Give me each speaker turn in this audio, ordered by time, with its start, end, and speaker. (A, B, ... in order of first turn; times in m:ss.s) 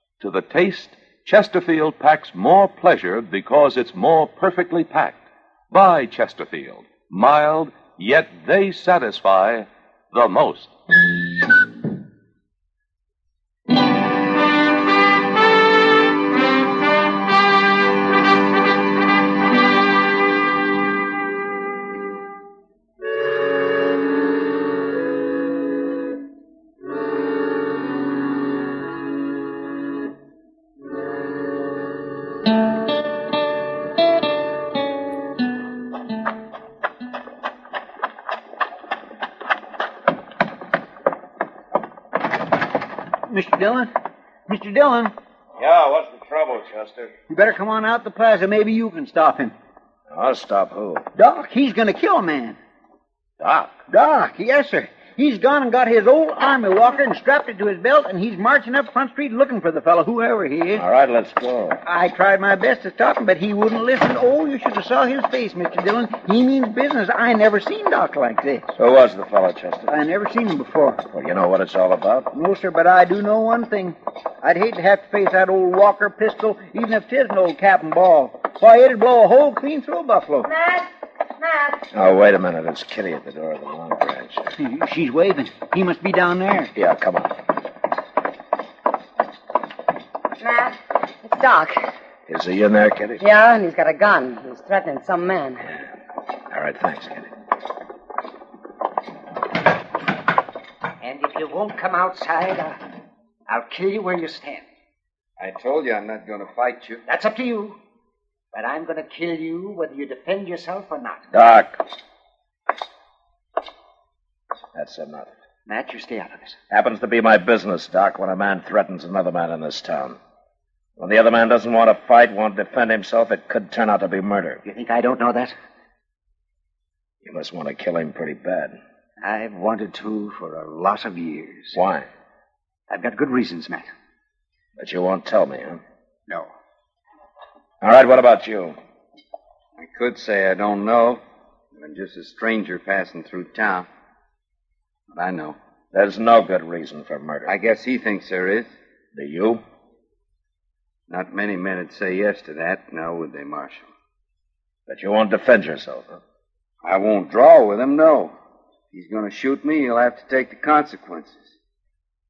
0:00.2-0:10.7 A
0:43.3-0:43.9 B
0:44.5-0:45.1 B
0:45.6-0:47.1 C
0:47.3-0:49.6 B
0:50.1-0:51.1 C
0:51.2-0:52.6 B
0:53.4-0:53.8 C
0:53.9-1:00.8 B
1:00.8-1:01.8 C
1:01.8-1:08.7 B
1:08.7-1:09.9 C
1:09.9-1:11.0 B
1:11.1-1:12.3 C
1:12.3-1:20.5 B
1:20.4-1:20.9 D
1:21.4-1:21.8 D
1:21.9-1:24.5 C
1:24.6-1:26.7 B
1:26.7-1:27.4 C
1:30.4-1:31.8 D
1:32.3-1:33.2 C
1:33.2-1:35.6 D
1:36.5-1:37.3 C
1:41.0-1:42.8 E
1:43.5-1:44.7 E
1:45.4-1:47.0 F
1:47.1-1:47.8 E
1:48.5-1:51.3 E
1:51.3-1:51.8 C
1:54.7-1:55.3 C
1:55.7-1:56.6 E
1:56.7-2:00.2 C
2:01.0-2:04.6 C
2:04.6-2:05.6 E
2:07.2-2:08.8 C
2:09.2-2:11.5 E
2:11.7-2:12.1 C
2:12.9-2:13.9 E
2:14.8-2:15.8 C
2:17.8-2:18.8 C
2:19.8-2:21.2 F
2:21.8-2:23.9 F
2:25.1-2:25.6 F
2:25.9-2:27.5 C
2:27.5-2:28.7 F
2:29.1-2:29.6 C
2:31.1-2:33.9 F
2:34.9-2:36.2 C
2:36.8-2:38.3 F
2:38.9-2:41.5 F